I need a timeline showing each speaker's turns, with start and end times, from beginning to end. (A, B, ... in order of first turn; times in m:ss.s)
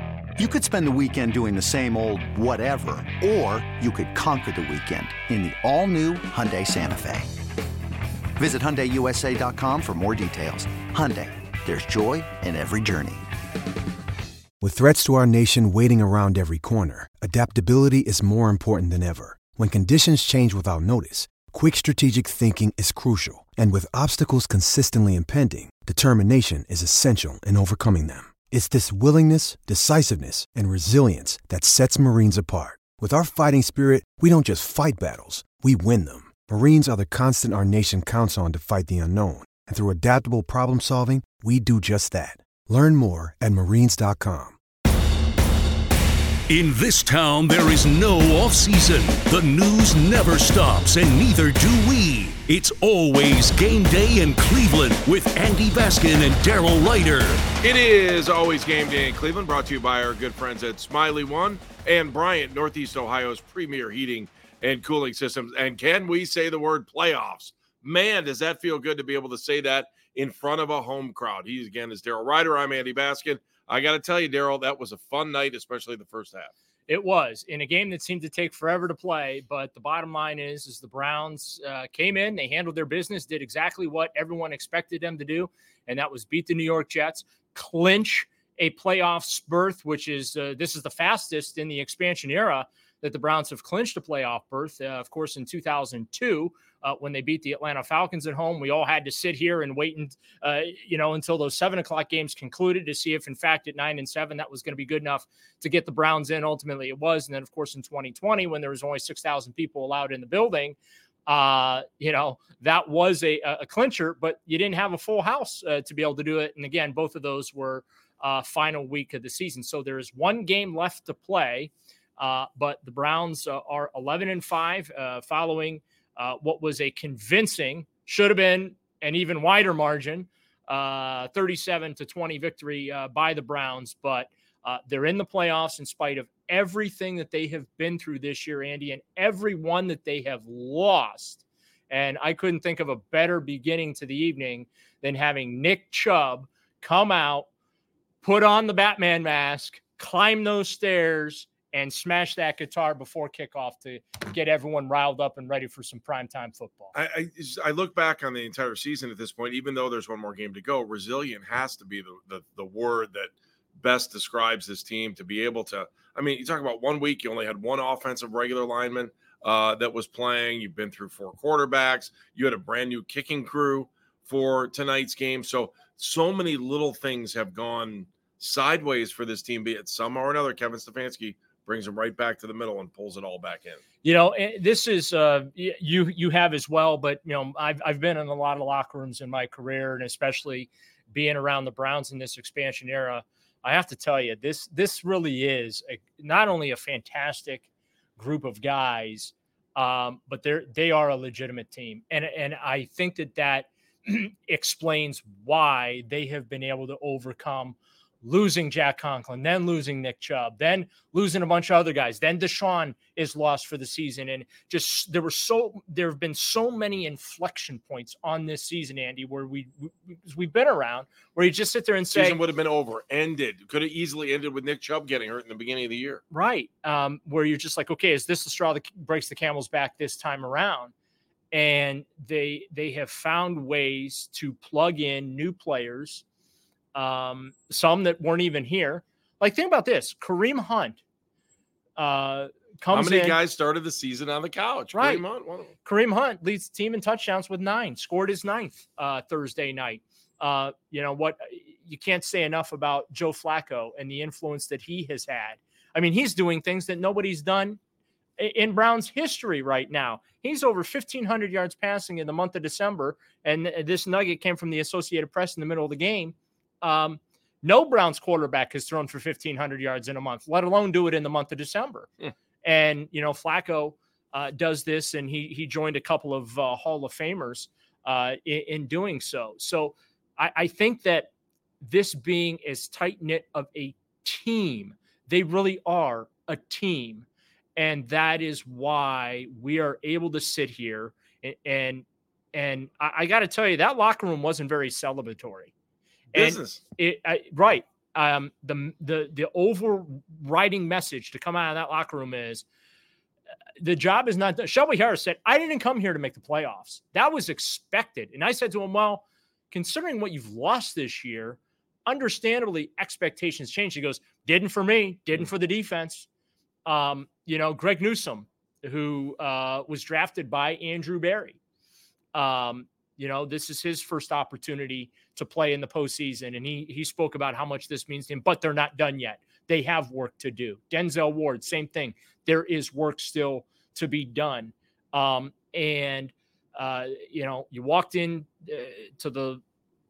0:00.4-0:07.2 A
0:08.4-0:13.2 A
0:14.6-0:44.6 B
0:46.5-0:57.3 C
0:57.6-1:16.5 D
1:16.9-2:27.5 E
2:28.2-2:36.9 E
2:36.9-3:03.8 D
3:04.0-3:42.4 E
3:42.1-3:46.2 D
3:46.3-3:50.9 E
3:51.5-3:56.2 E
3:56.9-4:01.0 E
4:02.0-4:03.4 E
4:02.9-4:05.7 D
4:04.9-4:05.2 E
4:05.8-4:17.8 E
4:18.4-4:32.1 E
4:32.6-4:41.3 E
4:41.8-4:55.7 E
4:56.3-5:02.6 E
4:56.3-4:56.8 D
5:03.8-5:16.3 E
5:16.8-5:21.6 E
5:22.3-5:39.6 E